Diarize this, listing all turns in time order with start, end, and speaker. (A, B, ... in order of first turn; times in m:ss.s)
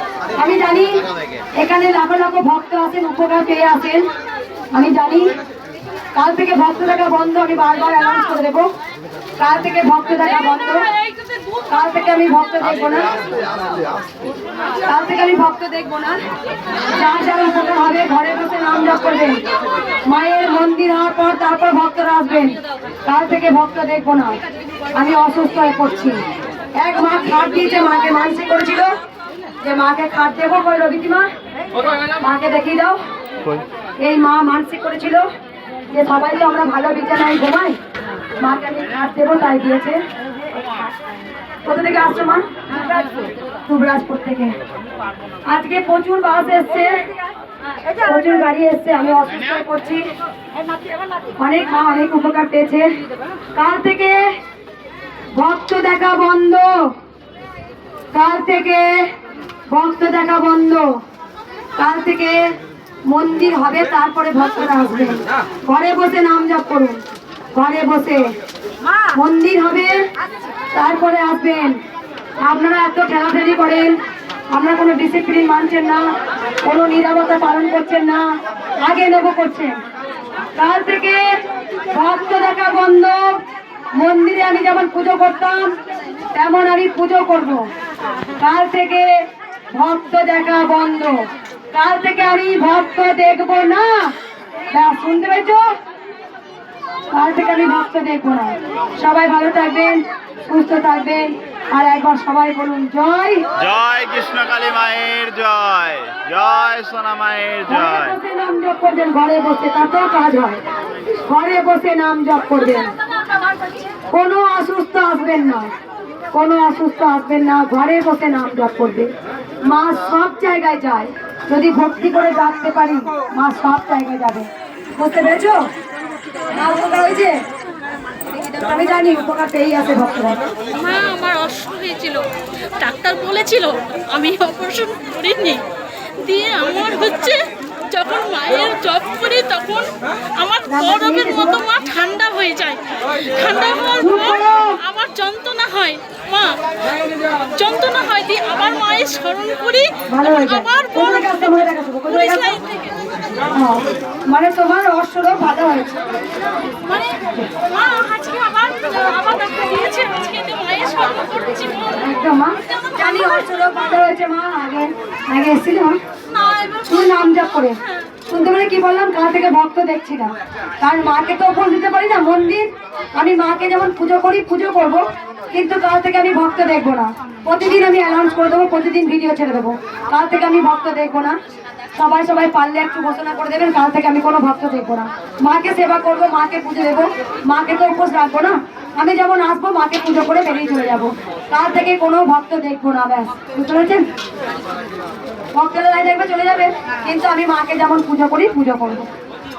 0:00.4-0:01.0 A
0:01.6-0:04.1 A
0:04.7-0:05.4 A
0:06.1-0:08.7 A
0:09.4-0:10.9 A
0:11.7-0:13.1 A
0:14.8-0:16.2 A
0:16.9-0:19.4 A
0:20.1-0:24.4 A
0:25.0-0:26.2 A
0:26.8-0:29.0 A
0:29.6-0:31.3 A
0:32.2-0:33.0 A
0:34.0-0:35.3 A
0:35.9-0:37.8 A
0:38.4-0:40.0 A
0:41.7-0:43.0 A
0:43.7-0:44.6 A
0:45.5-0:47.0 A
0:48.0-0:50.1 A
0:51.4-0:52.9 A
0:53.6-0:54.3 A
0:55.3-0:56.9 A
0:58.1-0:59.1 A
0:59.7-1:00.9 A
1:01.8-1:02.5 A
1:03.1-1:07.0 A
1:07.5-1:08.3 A
1:09.1-1:10.1 A
1:10.7-1:11.8 A
1:12.4-1:14.0 A
1:14.5-1:16.1 A
1:16.6-1:18.3 A
1:18.8-1:19.8 A
1:20.6-1:21.4 A
1:21.9-1:23.4 A
1:24.0-1:25.8 A
1:26.3-1:27.7 A
1:28.4-1:34.2 A
1:34.7-1:35.7 A
1:37.1-1:43.5 A
1:43.6-1:48.2 B
1:47.7-1:50.6 A
1:51.2-1:52.9 A
1:54.1-1:55.7 A
1:56.3-1:59.1 A
1:59.6-2:05.7 A
2:06.5-2:07.4 A
2:08.5-2:10.5 A
2:10.7-2:15.7 C
2:16.2-2:26.8 C
2:20.7-2:21.7 A
2:24.0-2:24.8 A
2:27.4-2:32.9 C
2:30.1-2:32.6 A
2:33.5-2:36.0 A
2:36.8-2:42.0 C
2:37.3-2:37.5 A
2:41.9-2:46.0 A
2:42.7-2:43.4 C
2:46.3-2:47.0 C
2:46.8-2:47.8 A
2:48.3-3:01.4 A
3:01.9-3:14.1 A
3:15.5-3:19.1 A